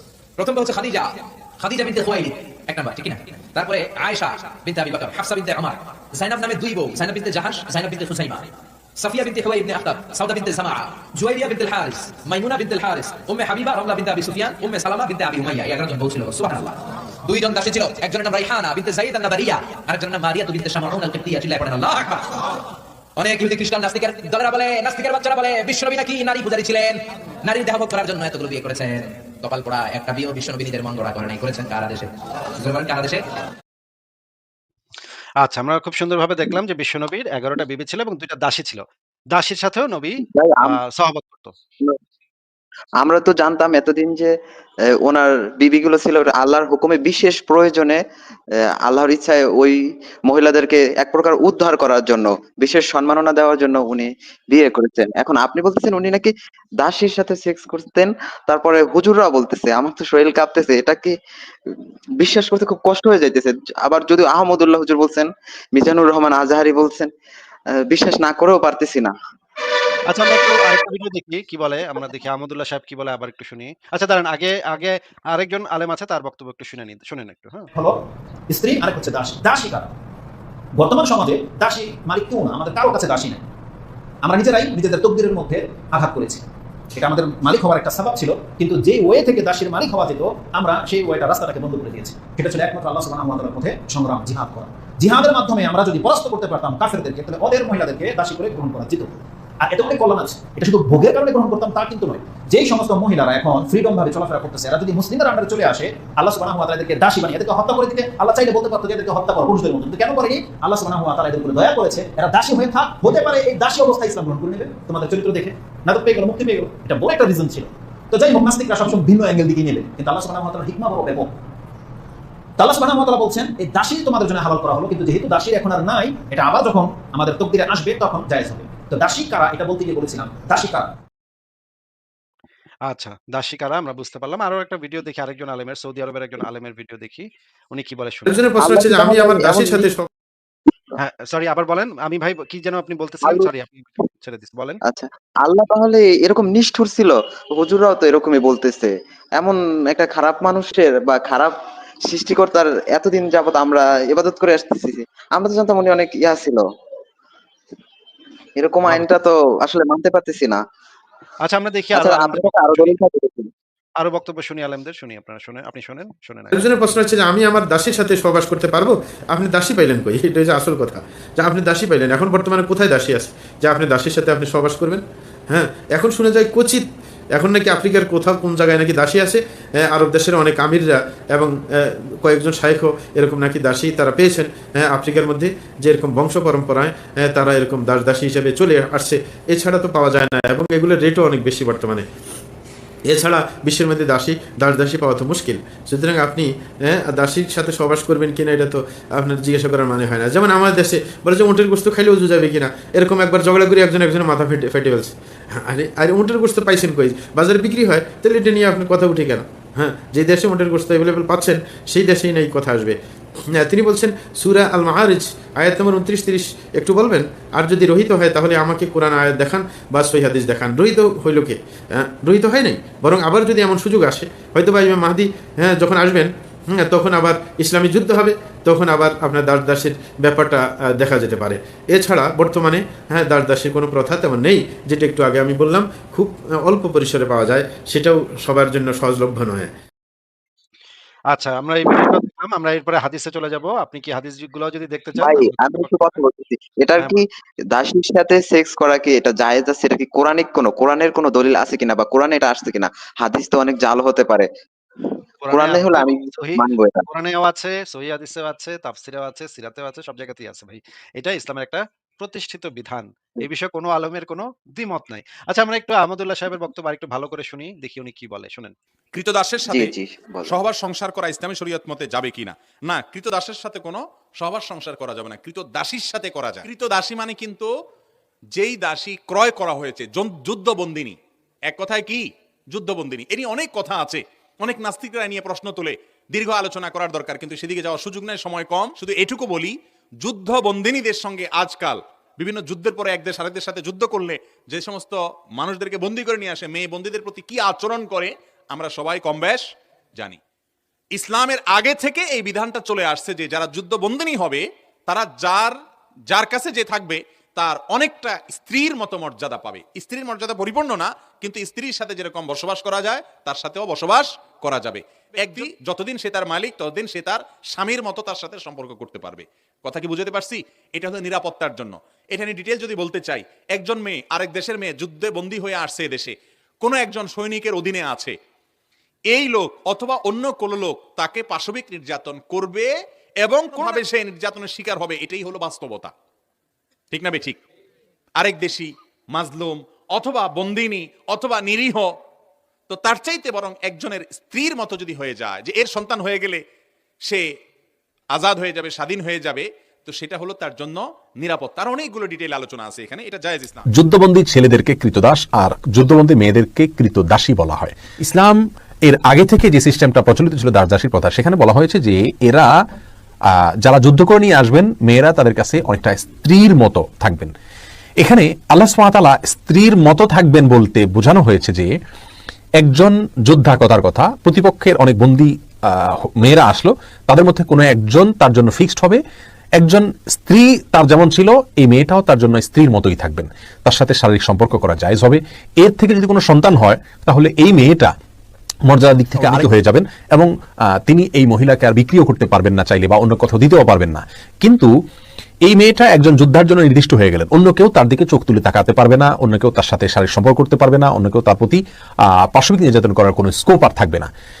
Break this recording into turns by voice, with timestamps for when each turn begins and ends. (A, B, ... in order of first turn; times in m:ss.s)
0:00.4-0:22.3 A
0:23.2-0:33.2 A
0:35.4-0:41.5 B
0:40.3-0:40.8 C
0:43.0-0:44.3 C
0:45.0-0:48.0 C
0:48.8-1:01.1 C
1:01.7-1:07.1 C
1:07.9-1:09.1 C
1:10.1-1:17.7 B
1:17.7-1:19.9 D
1:20.8-1:23.4 D
1:24.2-2:01.4 D
2:02.6-2:10.9 D
2:12.9-2:18.4 B
2:18.3-2:20.1 E
2:18.6-2:19.9 C
2:21.0-2:24.8 B
2:24.9-2:31.5 C
2:32.1-2:36.6 C
2:38.6-2:40.6 C
2:41.4-2:42.9 B
2:42.0-2:43.5 C
2:44.0-2:46.8 B
2:46.5-3:12.1 E
3:13.1-3:33.0 E
3:33.5-3:59.7 E
4:01.3-4:06.2 B
4:05.2-4:14.5 C
4:15.4-4:28.7 B
4:15.5-4:17.0 C
4:29.1-4:29.9 F
4:29.7-4:30.6 C
4:30.5-4:37.7 F
4:38.5-4:59.6 F
5:01.2-5:05.8 F
5:06.3-5:28.3 F
5:29.3-5:32.9 F
5:33.4-5:36.1 F
5:37.1-5:37.6 F
5:38.4-5:42.1 F
5:42.9-5:46.6 F
5:48.3-5:53.8 F
5:53.9-6:02.7 G
6:03.8-6:07.5 G
6:08.2-6:11.9 G
6:12.8-6:19.2 G
6:19.8-6:28.1 G
6:28.9-6:30.5 G
6:31.1-6:34.9 G
6:35.6-6:41.8 G
6:42.5-6:44.3 G